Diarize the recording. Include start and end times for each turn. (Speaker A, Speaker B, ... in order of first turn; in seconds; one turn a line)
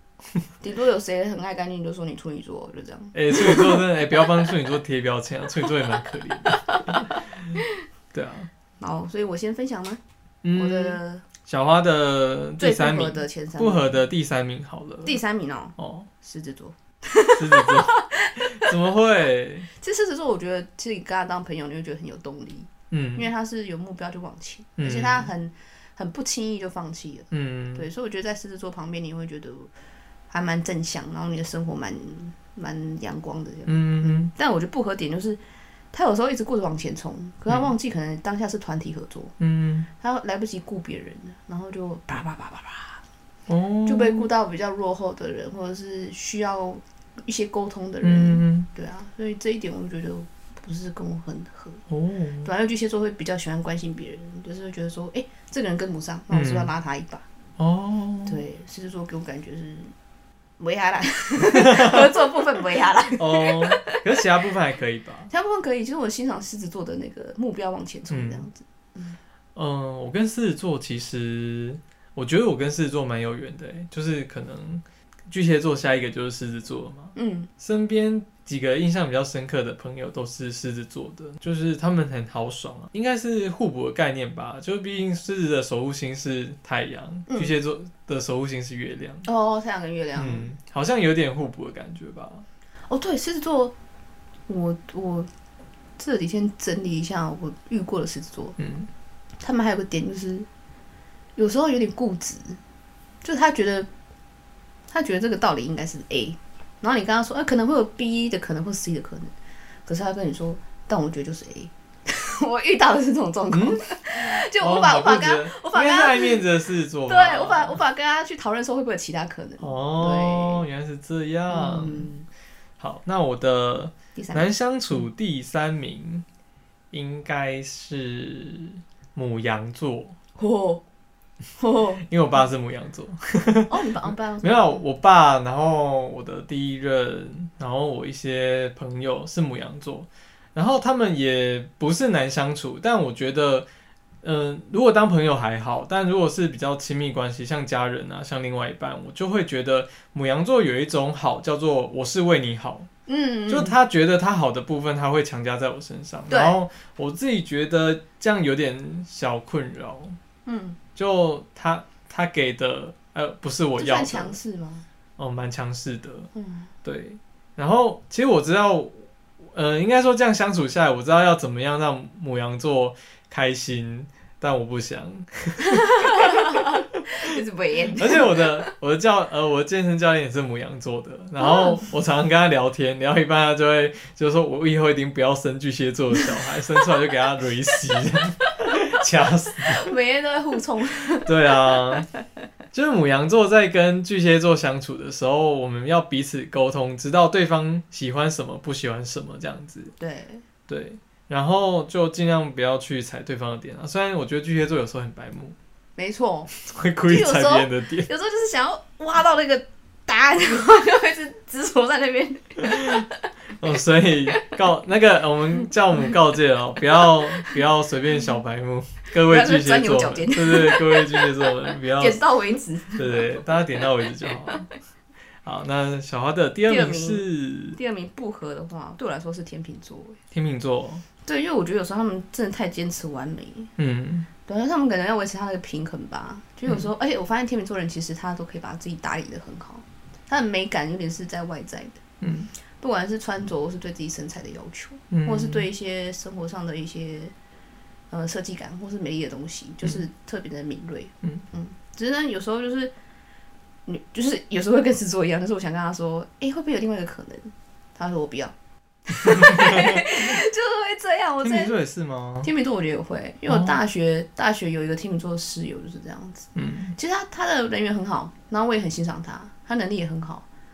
Speaker A: 0.6-4.5
Speaker B: 3.1-7.1
Speaker A: 6.5-7.7
Speaker B: 8.1-8.5
Speaker A: 8.8-10.0
Speaker B: 10.4-15.2
Speaker A: 10.5-11.2
Speaker A: 12.6-14.0
Speaker A: 15.0-18.7
Speaker B: 15.8-16.1
Speaker B: 17.3-19.7
Speaker A: 19.8-29.7
Speaker B: 22.9-23.3
Speaker B: 24.8-25.3
Speaker B: 27.3-27.9
Speaker A: 30.3-35.4
Speaker B: 33.7-34.3
Speaker A: 35.9-39.3
Speaker B: 37.5-37.7
Speaker B: 39.4-39.9
Speaker A: 40.0-43.0
Speaker B: 43.5-44.3
Speaker A: 43.9-51.8
Speaker B: 48.0-48.7
Speaker B: 51.9-52.5
Speaker A: 52.4-57.2
Speaker B: 56.3-56.7
Speaker B: 57.6-58.4
Speaker A: 58.2-59.9
Speaker A: 60.6-64.0
Speaker B: 61.6-62.1
Speaker B: 63.2-65.3
Speaker A: 65.3-69.2
Speaker B: 68.1-68.5
Speaker B: 69.5-89.2
Speaker A: 77.1-77.5
Speaker A: 87.3-87.5
Speaker A: 89.2-90.5
Speaker B: 90.2-92.5
Speaker A: 92.9-93.7
Speaker A: 94.5-95.3
Speaker A: 96.0-98.6
Speaker B: 98.6-98.9
Speaker A: 99.4-100.5
Speaker A: 101.4-102.6
Speaker A: 103.2-103.9
Speaker A: 104.9-109.3
Speaker A: 109.9-116.4
Speaker B: 113.5-117.8
Speaker A: 117.1-120.7
Speaker B: 119.6-122.1
Speaker A: 121.5-122.2
Speaker B: 122.8-126.2
Speaker A: 124.1-124.5
Speaker B: 126.9-130.2
Speaker A: 130.4-130.8
Speaker A: 131.6-132.1
Speaker B: 132.0-143.7
Speaker A: 133.7-134.8
Speaker B: 144.2-152.9
Speaker A: 153.1-153.8
Speaker B: 153.5-160.2
Speaker A: 156.3-156.6
Speaker A: 160.5-160.8
Speaker B: 161.0-164.4
Speaker A: 163.8-164.8
Speaker B: 165.2-166.3
Speaker A: 166.3-166.7
Speaker B: 166.8-176.4
Speaker A: 175.6-178.7
Speaker B: 178.0-189.9
Speaker A: 181.4-181.9
Speaker A: 188.6-188.9
Speaker A: 189.6-192.0
Speaker B: 191.2-192.1
Speaker B: 192.7-199.9
Speaker A: 200.0-200.4
Speaker B: 200.7-205.6
Speaker A: 206.0-206.5
Speaker B: 206.6-208.1
Speaker A: 207.1-213.3
Speaker B: 212.7-213.1
Speaker B: 213.6-222.2
Speaker A: 215.6-216.1
Speaker A: 217.0-217.6
Speaker A: 219.2-223.4
Speaker B: 222.9-224.7
Speaker B: 225.4-227.8
Speaker A: 226.7-230.2
Speaker B: 230.3-231.0
Speaker A: 231.2-233.7
Speaker B: 233.8-234.3
Speaker A: 234.5-242.0
Speaker B: 242.2-242.5
Speaker A: 242.8-247.3
Speaker B: 245.1-245.7
Speaker A: 248.1-252.9
Speaker A: 253.8-258.5
Speaker A: 259.1-261.7
Speaker B: 259.2-260.4
Speaker B: 261.4-262.5
Speaker A: 262.4-270.5
Speaker B: 263.5-263.8
Speaker B: 266.5-266.9